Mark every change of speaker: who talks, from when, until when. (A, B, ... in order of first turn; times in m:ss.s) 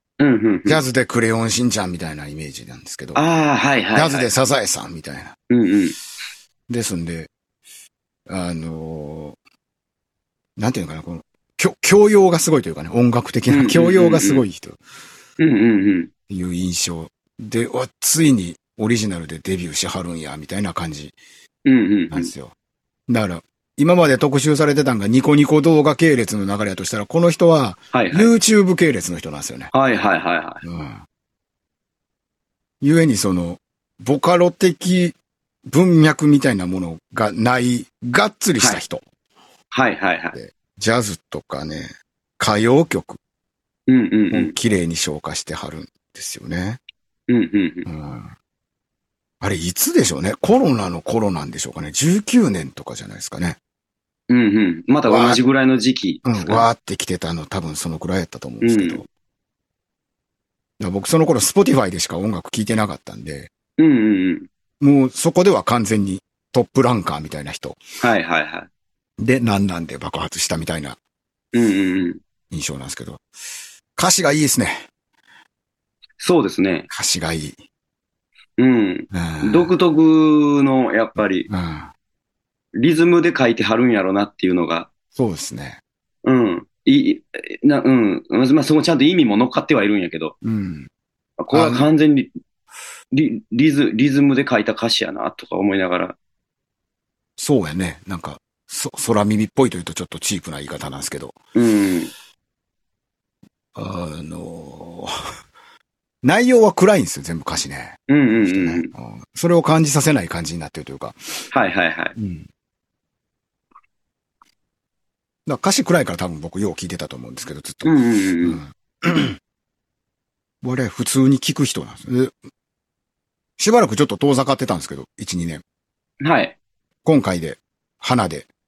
0:00.2-0:00.8 A
0:00.6-0:03.2 B
0:03.1-0:04.3 A
0:03.9-0:05.4 B
0:05.5-0:06.0 A
0:06.7-0:07.3 B
0:08.3-0:09.4 B
0:10.6-0:14.8 B
0:13.5-0:14.4 A
0:15.4-0:16.1 A
0:16.3-0:21.1 B
0:21.6-0:22.3 A
0:22.1-0:22.5 B
0:23.1-0:29.7 B
0:27.9-0:28.3 A
0:29.7-0:30.6 A
0:30.6-0:31.0 B
0:32.8-0:35.2 B
0:35.7-0:39.0 B
0:39.7-0:40.4 A
0:40.3-0:43.2 B
0:43.9-0:44.5 A
0:44.3-0:46.8 B
0:47.3-0:47.9 A
0:47.8-0:48.3 B
0:49.4-0:53.6 B
0:54.3-0:56.7 A
0:55.1-0:55.4 B
0:56.2-0:59.1 B
0:58.6-0:59.0 A
1:00.8-1:03.5 B
1:03.8-1:04.5 A
1:04.8-1:07.8 B
1:08.0-1:08.7 A
1:09.2-1:11.0 B
1:11.5-1:12.2 A
1:12.5-1:13.2 B
1:14.0-1:14.8 B
1:16.2-1:16.9 A
1:16.9-1:17.6 B
1:18.6-1:21.5 A
1:19.1-1:19.7 B
1:21.5-1:21.9 B
1:22.8-1:24.9 A
1:25.1-1:25.8 B
1:26.2-1:30.3 A
1:30.4-1:30.9 B
1:31.4-1:32.3 A
1:31.5-1:31.9 B
1:33.1-1:36.2 A
1:37.4-1:41.4 B
1:41.5-1:42.1 A
1:43.7-1:45.1 B
1:46.2-1:51.2 B
1:48.1-1:48.9 A
1:51.5-1:52.2 A
1:52.2-1:52.5 B
1:55.4-1:59.4 B
1:57.8-1:58.6 A
2:00.6-2:02.3 B
2:03.6-2:05.6 B
2:06.2-2:06.6 A
2:07.0-2:08.5 B